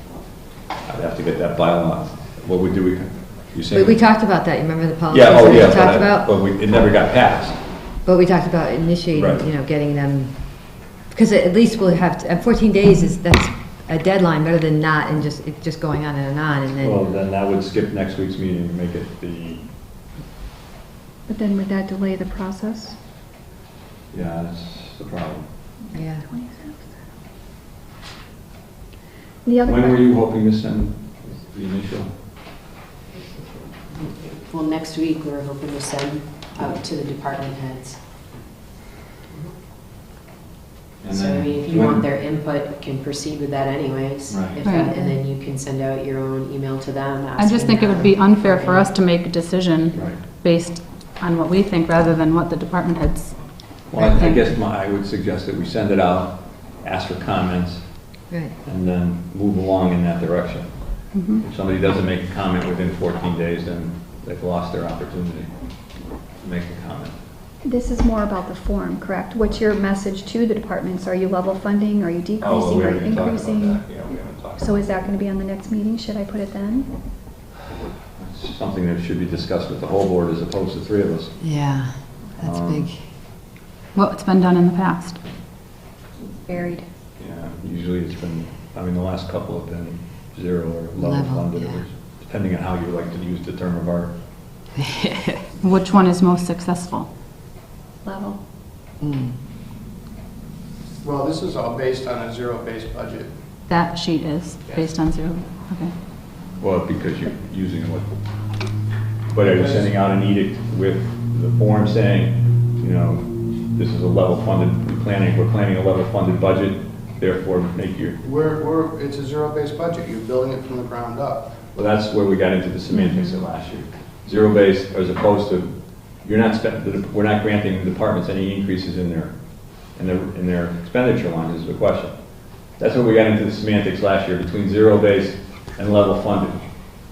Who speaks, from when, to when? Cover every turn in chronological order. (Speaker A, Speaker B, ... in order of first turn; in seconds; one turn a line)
Speaker A: 0.9-4.0
Speaker B: 3.7-6.3
Speaker A: 5.1-7.6
Speaker B: 8.0-17.0
Speaker A: 9.1-9.4
Speaker A: 16.8-19.6
Speaker C: 21.3-23.0
Speaker A: 24.1-25.4
Speaker C: 25.8-26.9
Speaker B: 25.9-26.2
Speaker C: 29.4-30.1
Speaker A: 29.6-32.1
Speaker D: 34.5-38.0
Speaker A: 41.0-42.0
Speaker D: 41.1-48.9
Speaker A: 44.3-44.7
Speaker E: 44.5-45.1
Speaker E: 47.4-53.4
Speaker A: 49.9-50.2
Speaker A: 53.9-57.9
Speaker E: 53.9-54.5
Speaker B: 58.3-58.5
Speaker A: 58.6-65.5
Speaker E: 61.1-61.4
Speaker A: 66.4-67.1
Speaker C: 67.6-73.9
Speaker A: 72.4-75.1
Speaker C: 74.6-76.9
Speaker A: 78.2-81.4
Speaker B: 81.4-83.0
Speaker A: 82.4-82.9
Speaker E: 83.9-85.2
Speaker C: 86.5-86.8
Speaker A: 87.2-94.1
Speaker B: 91.0-91.8
Speaker E: 95.6-97.1
Speaker C: 98.0-98.4
Speaker B: 99.0-99.3
Speaker F: 101.0-103.3
Speaker E: 103.7-105.9
Speaker A: 106.6-108.2
Speaker A: 109.3-118.2
Speaker F: 109.4-109.9
Speaker F: 118.2-121.5
Speaker A: 121.7-125.7
Speaker C: 122.9-123.3
Speaker A: 126.2-129.3
Speaker A: 129.9-132.1
Speaker A: 132.8-136.6